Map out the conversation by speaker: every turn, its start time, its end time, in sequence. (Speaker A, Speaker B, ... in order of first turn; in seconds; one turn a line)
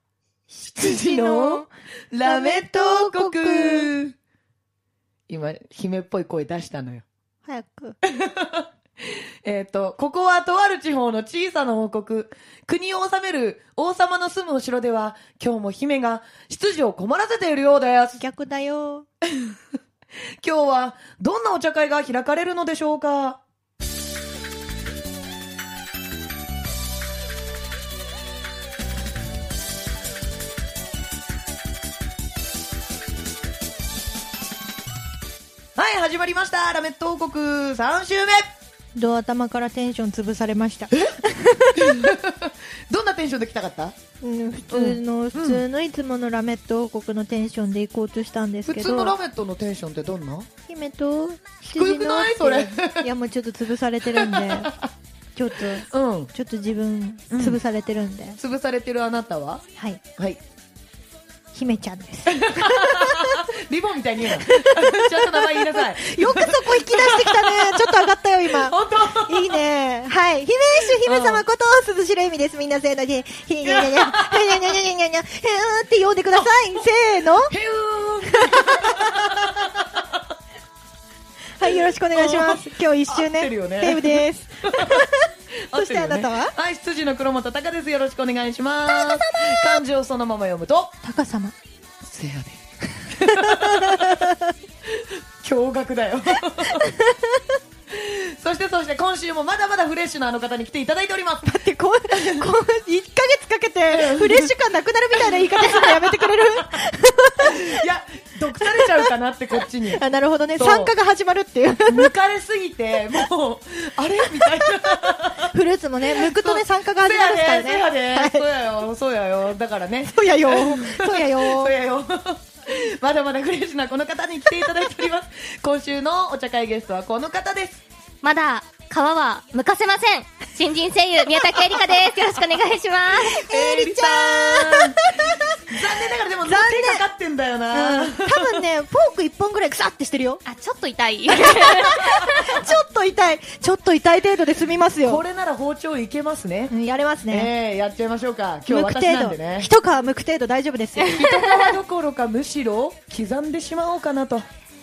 Speaker A: 0.5-1.7
Speaker B: 0.7-4.2
Speaker A: 2.2-3.9
Speaker B: 5.3-7.0
Speaker A: 7.5-8.0
Speaker B: 8.0-18.2
Speaker A: 18.2-19.1
Speaker B: 19.3-19.6
Speaker B: 20.4-23.4
Speaker B: 35.8-38.5
Speaker A: 38.9-42.0
Speaker B: 40.9-41.2
Speaker B: 41.7-44.0
Speaker A: 44.2-49.1
Speaker B: 44.7-45.6
Speaker B: 48.6-50.5
Speaker A: 50.7-54.7
Speaker B: 51.7-53.1
Speaker B: 54.1-54.9
Speaker A: 55.3-58.4
Speaker B: 55.6-56.3
Speaker B: 57.3-57.6
Speaker B: 58.4-59.6
Speaker A: 59.8-60.0
Speaker B: 60.1-60.4
Speaker A: 61.5-63.4
Speaker B: 62.3-69.6
Speaker A: 64.3-77.5
Speaker B: 70.8-71.4
Speaker B: 73.6-74.7
Speaker B: 76.3-80.2
Speaker A: 78.3-79.3
Speaker A: 81.6-86.5
Speaker B: 81.6-85.1
Speaker B: 85.7-91.0
Speaker A: 88.9-89.8
Speaker A: 91.0-91.5
Speaker B: 92.0-94.3
Speaker A: 93.1-94.5
Speaker B: 94.8-96.9
Speaker A: 96.5-97.6
Speaker B: 97.9-101.6
Speaker A: 101.4-107.8
Speaker B: 102.1-102.5
Speaker B: 103.9-104.5
Speaker B: 105.2-106.2
Speaker B: 107.4-110.0
Speaker A: 108.6-109.1
Speaker A: 109.9-112.1
Speaker B: 110.5-110.9
Speaker B: 111.9-115.5
Speaker A: 115.4-118.5
Speaker B: 116.1-127.8
Speaker A: 120.1-121.7
Speaker C: 128.2-133.5
Speaker A: 131.6-131.9
Speaker A: 133.3-135.8
Speaker B: 133.3-138.6
Speaker A: 136.4-137.1
Speaker A: 137.7-140.4
Speaker C: 140.4-142.5
Speaker A: 141.3-145.2
Speaker B: 145.0-146.7
Speaker A: 146.7-147.5
Speaker B: 147.3-149.7
Speaker A: 148.7-151.2
Speaker B: 151.0-154.4
Speaker C: 151.1-151.7